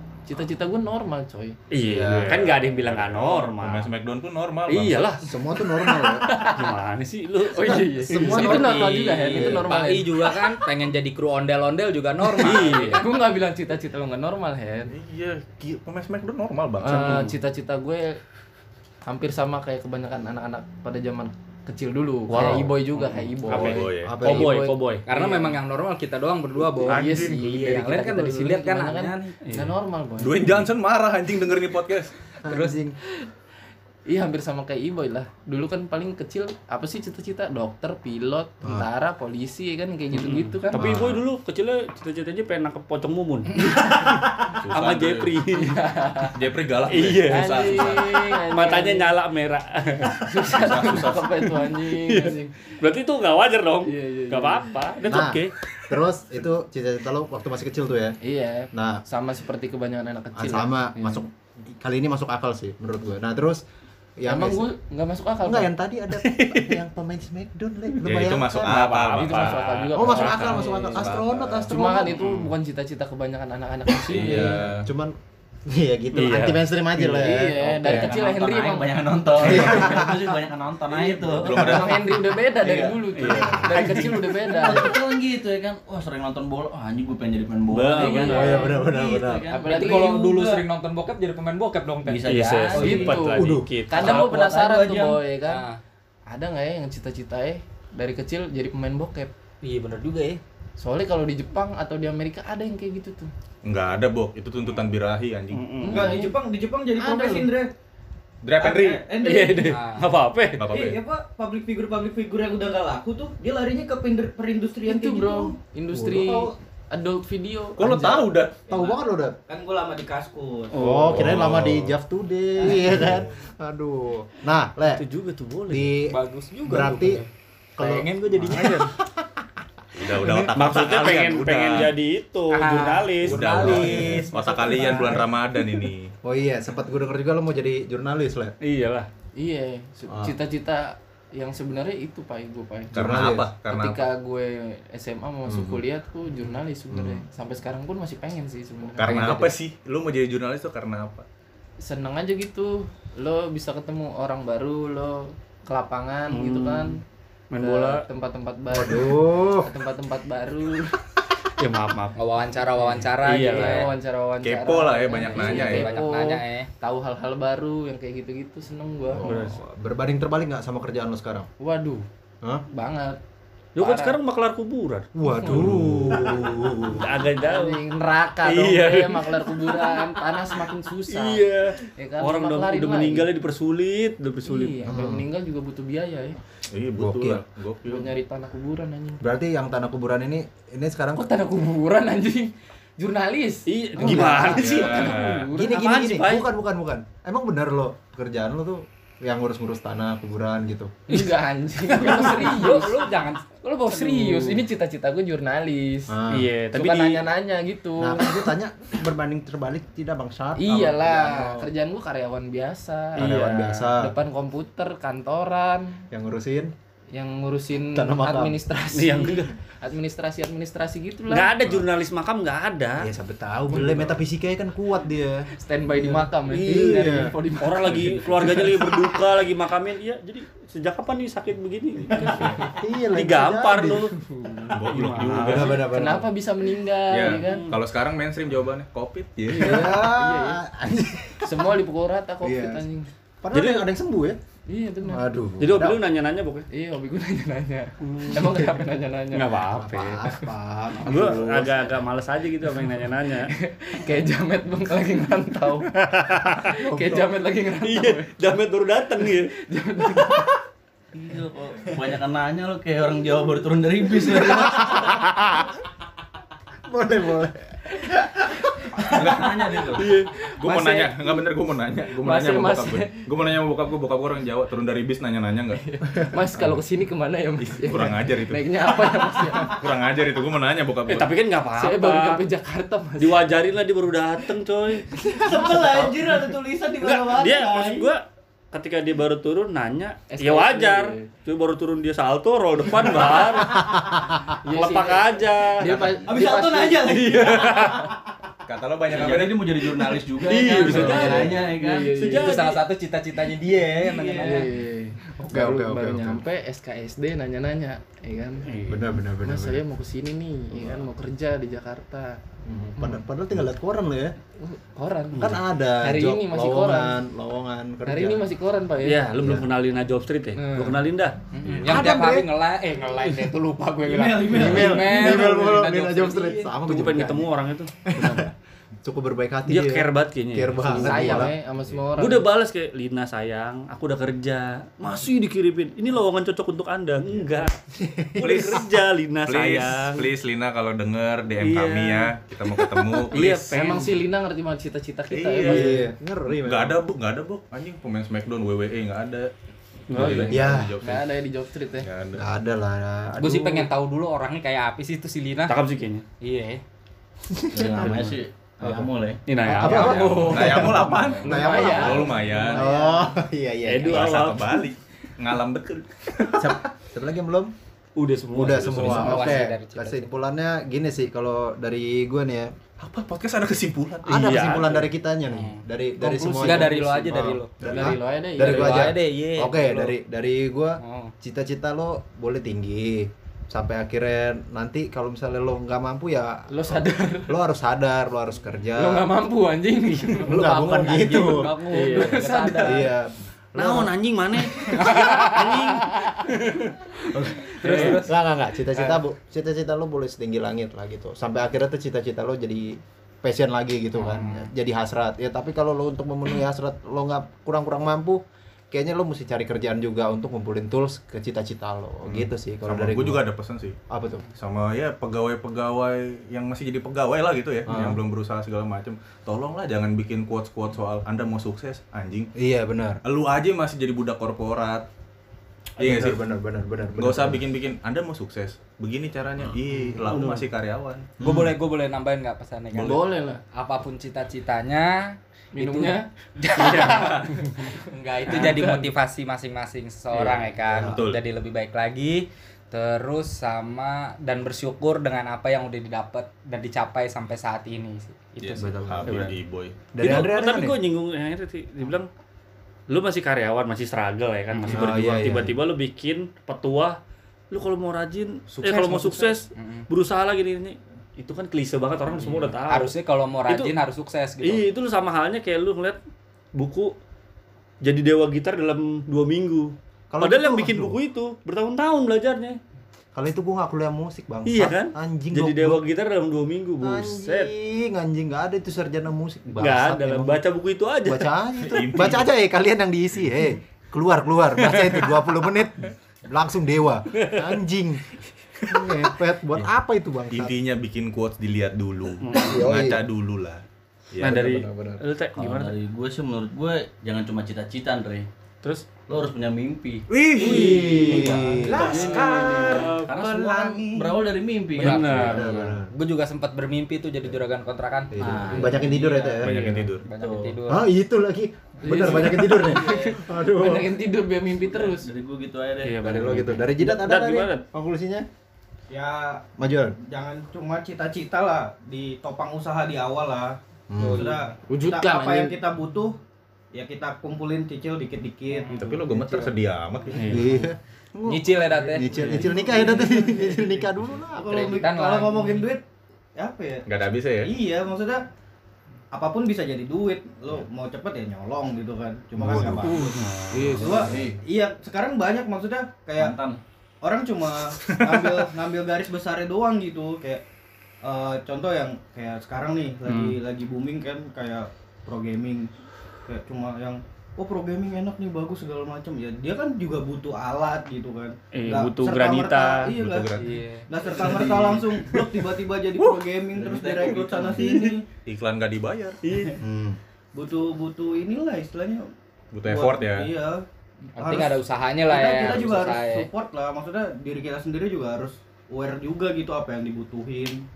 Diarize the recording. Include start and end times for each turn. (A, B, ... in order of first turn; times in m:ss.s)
0:00.2-0:01.6 A
0:01.7-0:03.9 B
0:01.8-0:02.6 C
0:02.3-0:05.1 D
0:04.7-0:05.3 B
0:05.2-0:06.3 C
0:05.8-0:06.7 A
0:06.4-0:08.4 B
0:07.4-0:10.4 A
0:08.1-0:09.7 C
0:08.2-0:13.2 E
0:12.2-0:14.9 A
0:12.4-0:13.0 B
0:14.9-0:17.3 D
0:16.8-0:18.2 A
0:16.9-0:17.3 B
0:19.0-0:25.6 A
0:22.3-0:22.7 C
0:22.3-0:22.6 B
0:23.5-0:25.0 B
0:23.5-0:24.2 D
0:24.0-0:24.6 C
0:25.0-0:29.4 E
0:26.7-0:30.6 A
0:26.9-0:27.3 D
0:29.4-0:29.7 B
0:30.2-0:32.3 D
0:32.4-0:33.0 C
0:32.5-0:32.8 E
0:34.1-0:41.0 A
0:38.6-0:38.9 C
0:40.1-0:45.8 B
0:40.7-0:41.2 C
0:43.5-0:44.1 A
0:44.5-0:45.4 D
0:45.5-0:46.4 A
0:46.3-0:48.2 D
0:46.9-0:50.5 B
0:47.2-0:49.1 A
0:50.2-0:52.7 A
0:50.5-0:51.5 D
0:51.6-0:55.5 B
0:53.8-0:54.9 A
0:55.1-0:58.2 C
0:58.2-1:01.2 A
0:58.7-0:59.0 C
1:00.3-1:03.6 C
1:04.2-1:04.7 C
1:04.2-1:05.7 A
1:05.4-1:09.0 C
1:06.1-1:06.8 B
1:08.0-1:11.8 D
1:08.6-1:10.7 B
1:09.1-1:11.2 A
1:09.9-1:12.2 C
1:11.7-1:14.7 A
1:12.0-1:12.5 B
1:14.0-1:14.9 D
1:14.3-1:18.1 C
1:16.1-1:16.7 B
1:17.0-1:20.0 A
1:17.6-1:23.0 F
1:19.4-1:20.4 C
1:21.4-1:22.2 D
1:21.4-1:25.0 A
1:23.1-1:24.2 B
1:23.8-1:30.6 F
1:27.7-1:28.5 B
1:28.0-1:28.8 A
1:28.3-1:29.5 C
1:29.5-1:30.2 A
1:29.6-1:33.0 E
1:29.9-1:30.2 G
1:32.0-1:33.1 F
1:32.3-1:34.3 B
1:32.8-1:35.6 A
1:33.3-1:33.7 C
1:34.0-1:34.8 F
1:34.0-1:35.2 G
1:35.4-1:35.8 E
1:36.3-1:39.3 A
1:39.6-1:40.4 E
1:40.8-1:43.3 A
1:43.6-1:45.9 D
1:45.5-1:46.1 B
1:45.8-1:46.4 A
1:45.9-1:47.7 G
1:47.0-1:47.5 A
1:48.4-1:49.0 D
1:48.6-1:49.8 G
1:49.2-1:50.6 B
1:49.6-1:50.1 E
1:50.6-1:51.0 D
1:50.7-1:55.5 G
1:54.8-1:58.3 A
1:55.9-1:56.5 C
1:57.8-1:58.6 D
1:58.7-2:01.0 G
1:58.7-1:59.4 C
2:00.7-2:01.4 B
2:00.7-2:05.0 C
2:01.1-2:02.0 D
2:03.0-2:03.3 D
2:05.0-2:06.0 B
2:05.7-2:07.2 C
2:06.0-2:07.3 E
2:07.8-2:08.8 E
2:07.8-2:09.4 C
2:08.5-2:08.8 B
2:09.9-2:11.9 D
2:10.0-2:10.5 C
2:10.5-2:13.4 B
2:12.5-2:15.1 E
2:13.2-2:16.1 D
2:13.5-2:14.3 C
2:13.8-2:15.3 A
2:16.2-2:18.5 C
2:18.6-2:19.1 B
2:19.4-2:29.6 A
2:20.1-2:20.3 C
2:22.9-2:24.0 D
2:22.9-2:23.5 C
2:25.5-2:25.8 C
2:26.9-2:27.2 C
2:29.0-2:31.2 D
2:31.8-2:37.0 A
2:36.3-2:37.0 B
2:37.5-2:38.0 B
2:37.6-2:41.0 A
2:38.7-2:39.7 C
2:41.6-2:42.2 B
2:42.2-2:43.9 E
2:42.5-2:49.3 A
2:43.2-2:43.9 B
2:44.4-2:45.9 D
2:45.3-2:46.7 E
2:49.1-2:51.5 C
2:49.2-2:49.6 B
2:51.6-2:52.0 A
2:52.7-2:53.2 A
2:53.8-2:55.1 B
2:53.8-2:54.2 A
2:55.1-2:57.1 C
2:55.2-3:03.3 A
2:55.6-2:56.0 D
2:56.9-2:57.8 B
2:58.4-3:00.3 B
3:01.1-3:04.8 B
3:04.4-3:06.4 A
3:04.8-3:05.3 C
3:06.7-3:08.1 D
3:07.0-3:07.4 C
3:07.8-3:09.2 A
3:09.2-3:11.3 C
3:11.1-3:15.8 A
3:13.7-3:16.5 B
3:14.0-3:14.8 C
3:14.6-3:15.5 D
3:15.5-3:20.9 C
3:21.1-3:26.2 A
3:22.0-3:23.5 E
3:23.9-3:24.6 B
3:26.1-3:26.5 C
3:26.3-3:27.2 B
3:26.7-3:28.5 A
3:28.0-3:31.7 C
3:30.6-3:36.0 A
3:33.2-3:33.8 B
3:33.2-3:34.1 C
3:36.1-3:36.7 C
3:37.1-3:41.5 A
3:37.8-3:38.6 C
3:38.9-3:39.5 B
3:41.3-3:43.1 B
3:43.0-3:47.3 C
3:45.6-3:49.2 A
3:46.5-3:54.1 B
3:52.1-3:52.8 A
3:52.7-3:54.1 C
3:54.2-3:57.6 A
3:54.7-3:55.8 D
3:54.8-3:55.8 B
3:55.4-3:56.3 C
3:57.1-3:59.8 D
3:57.2-3:57.7 B
3:59.5-4:00.6 A
3:59.5-4:01.7 C
4:01.4-4:03.1 A
4:02.4-4:02.8 C
4:03.4-4:04.4 C
4:03.5-4:03.8 B
4:04.7-4:05.3 A
4:05.0-4:06.0 C
4:05.6-4:06.7 B
4:06.7-4:09.6 A
4:08.0-4:08.7 B
4:09.3-4:10.2 B
4:09.7-4:11.9 C
4:11.0-4:13.5 B
4:13.5-4:15.9 A
4:16.0-4:16.7 B
4:16.6-4:18.4 A
4:16.8-4:17.2 C
4:17.8-4:19.5 B
4:19.2-4:20.6 A
4:21.1-4:25.2 F
4:24.3-4:25.2 C
4:26.9-4:29.1 C
4:29.1-4:35.8 D
4:29.1-4:30.1 F
4:30.0-4:31.4 A
4:32.2-4:33.3 A
4:35.8-4:39.9 A
4:37.6-4:41.4 D
4:41.1-4:42.4 B
4:41.7-4:43.6 A
4:43.2-4:45.1 B
4:45.1-4:46.6 A
4:45.3-4:48.1 G
4:47.0-4:53.9 B
4:50.3-4:51.3 A
4:52.9-4:57.3 A
4:53.7-4:54.4 C
4:54.7-4:55.9 B
4:55.8-4:56.2 D
4:56.2-4:58.1 G
4:57.1-4:58.0 B
4:58.6-4:59.9 D
4:59.1-5:02.2 F
5:00.4-5:01.5 B
5:00.5-5:02.8 A
5:00.9-5:01.6 C
5:02.1-5:02.8 B
5:02.3-5:04.7 E
5:03.7-5:04.7 F
5:04.1-5:04.4 G
5:04.4-5:08.7 A
5:05.4-5:06.4 C
5:08.6-5:09.0 B
5:08.9-5:09.8 C
5:09.4-5:12.4 A
5:10.7-5:11.0 C
5:12.6-5:14.3 C
5:13.0-5:13.2 A
5:14.6-5:17.2 A
5:15.4-5:18.4 C
5:18.0-5:19.6 A
5:19.0-5:21.4 B
5:19.4-5:19.6 C
5:20.6-5:21.0 A
5:21.5-5:26.7 E
5:21.6-5:22.0 D
5:21.9-5:22.5 C
5:24.0-5:25.5 G
5:24.5-5:27.5 C
5:26.8-5:28.4 B
5:28.0-5:28.5 C
5:29.0-5:31.6 C
5:29.7-5:31.5 B
5:30.9-5:32.5 A
5:32.2-5:40.2 B
5:38.0-5:38.9 C
5:39.4-5:43.7 D
5:41.6-5:42.3 B
5:43.2-5:44.2 B
5:43.7-5:46.0 A
5:45.3-5:49.5 D
5:45.6-5:47.0 C
5:50.1-5:50.7 B
5:50.1-5:51.3 D
5:50.5-5:50.9 C
5:51.0-5:52.1 A
5:52.0-5:52.5 D
5:52.4-5:53.9 C
5:53.4-5:55.8 E
5:55.7-5:56.2 B
5:56.4-5:56.8 E
5:57.5-5:58.1 C
5:57.7-5:59.4 F
5:58.0-5:58.4 B
5:58.8-5:59.1 C
5:59.5-6:00.5 B
5:59.7-6:04.5 C
5:59.7-6:03.4 A
5:59.8-6:02.8 D
6:03.8-6:04.8 B
6:04.0-6:06.8 D
6:06.5-6:07.7 C
6:08.2-6:09.4 B
6:08.5-6:12.7 C
6:08.6-6:09.5 D
6:09.1-6:10.3 E
6:13.0-6:14.3 D
6:14.2-6:29.3 C
6:14.2-6:15.1 B
6:15.5-6:15.8 E
6:16.2-6:19.1 A
6:16.5-6:20.2 E
6:21.0-6:21.3 E
6:26.7-6:27.5 A
6:29.0-6:33.1 A
6:30.4-6:31.7 C
6:30.6-6:33.1 E
6:31.9-6:32.5 B
6:32.8-6:34.2 C
6:33.7-6:36.9 B
6:34.7-6:36.2 A
6:37.3-6:53.4 C
6:37.6-6:38.2 B
6:37.8-6:38.4 E
6:38.9-6:39.2 E
6:44.1-6:44.7 E
6:52.2-6:54.0 D
6:54.1-6:54.4 C
6:54.6-7:02.5 D
6:57.9-6:58.2 C
7:02.6-7:03.2 C
7:03.2-7:05.0 D
7:06.0-7:06.4 D
7:06.0-7:07.6 C
7:07.2-7:11.3 D
7:11.4-7:11.7 C
7:11.4-7:13.2 E
7:12.9-7:13.2 D
7:12.9-7:13.6 A
7:13.7-7:28.9 E
7:15.7-7:16.3 A
7:16.7-7:17.3 B
7:16.8-7:17.2 A
7:17.1-7:17.4 D
7:18.5-7:19.0 B
7:18.5-7:18.9 A
7:20.9-7:21.1 C
7:21.0-7:21.4 D
7:28.6-7:30.1 D
7:28.8-7:29.4 C
7:29.3-7:29.6 B
7:30.1-7:31.0 C
7:30.2-7:32.3 B
7:33.1-7:37.2 B
7:34.7-7:35.0 E
7:34.9-7:35.7 C
7:37.7-7:43.1 B
7:38.7-7:39.6 D
7:39.7-7:40.0 E
7:42.4-7:44.8 E
7:43.7-7:43.9 B
7:44.6-7:46.2 B
7:46.8-7:47.1 B
7:48.0-7:52.8 B
7:50.3-7:51.2 C
7:53.3-7:56.0 C
7:54.6-7:57.7 B
7:57.0-8:00.6 C
7:59.8-8:01.5 B
8:01.2-8:08.3 C
8:01.8-8:02.5 D
8:04.8-8:05.3 B
8:07.3-8:07.7 B
8:08.8-8:10.7 C
8:10.5-8:14.6 D
8:12.4-8:12.8 B
8:12.5-8:13.2 C
8:14.4-8:15.2 C
8:14.4-8:15.9 B
8:15.6-8:18.5 F
8:18.8-8:19.1 B
8:19.3-8:20.3 F
8:20.3-8:21.1 D
8:20.5-8:26.1 C
8:20.6-8:23.3 B
8:21.4-8:22.1 F
8:21.9-8:22.6 G
8:22.0-8:23.1 A
8:22.0-8:23.1 D
8:23.2-8:25.5 F
8:25.0-8:25.9 B
8:26.1-8:29.6 E
8:28.3-8:29.8 C
8:28.4-8:29.2 F
8:29.6-8:30.3 D
8:29.6-8:30.1 B
8:30.2-8:31.1 E
8:30.3-8:30.8 F
8:30.9-8:34.2 C
8:32.0-8:35.3 A
8:32.8-8:33.1 F
8:34.9-8:36.6 F
8:36.0-8:37.8 B
8:36.2-8:38.5 C
8:39.1-8:39.6 G
8:39.8-8:40.2 C
8:40.2-8:43.7 G
8:44.1-8:44.5 C
8:44.3-8:46.4 G
8:44.9-8:45.7 A
8:46.9-8:49.7 G
8:49.0-8:50.6 D
8:50.3-8:50.8 B
8:50.5-8:54.8 C
8:51.4-8:52.5 E
8:52.4-8:52.7 B
8:52.4-8:56.0 G
8:54.6-8:55.9 E
8:56.6-8:57.0 G
8:57.0-8:57.7 D
8:57.6-8:58.4 G
8:59.3-9:10.6 G
9:02.6-9:03.2 C
9:03.1-9:04.0 B
9:03.1-9:04.2 A
9:04.0-9:04.6 F
9:06.4-9:06.8 F
9:08.0-9:08.4 D
9:11.2-9:15.9 G
9:13.3-9:13.5 B
9:16.4-9:23.5 G
9:21.7-9:23.1 B
9:23.1-9:23.8 D
9:23.5-9:24.3 E
9:24.1-9:28.3 G
9:24.6-9:25.0 D
9:26.8-9:27.8 F
9:28.4-9:29.4 D
9:29.4-9:29.8 B
9:29.8-9:30.2 C
9:30.5-9:32.2 G
9:32.7-9:33.5 D
9:32.8-9:33.8 G
9:34.4-9:36.5 E
9:34.4-9:40.8 G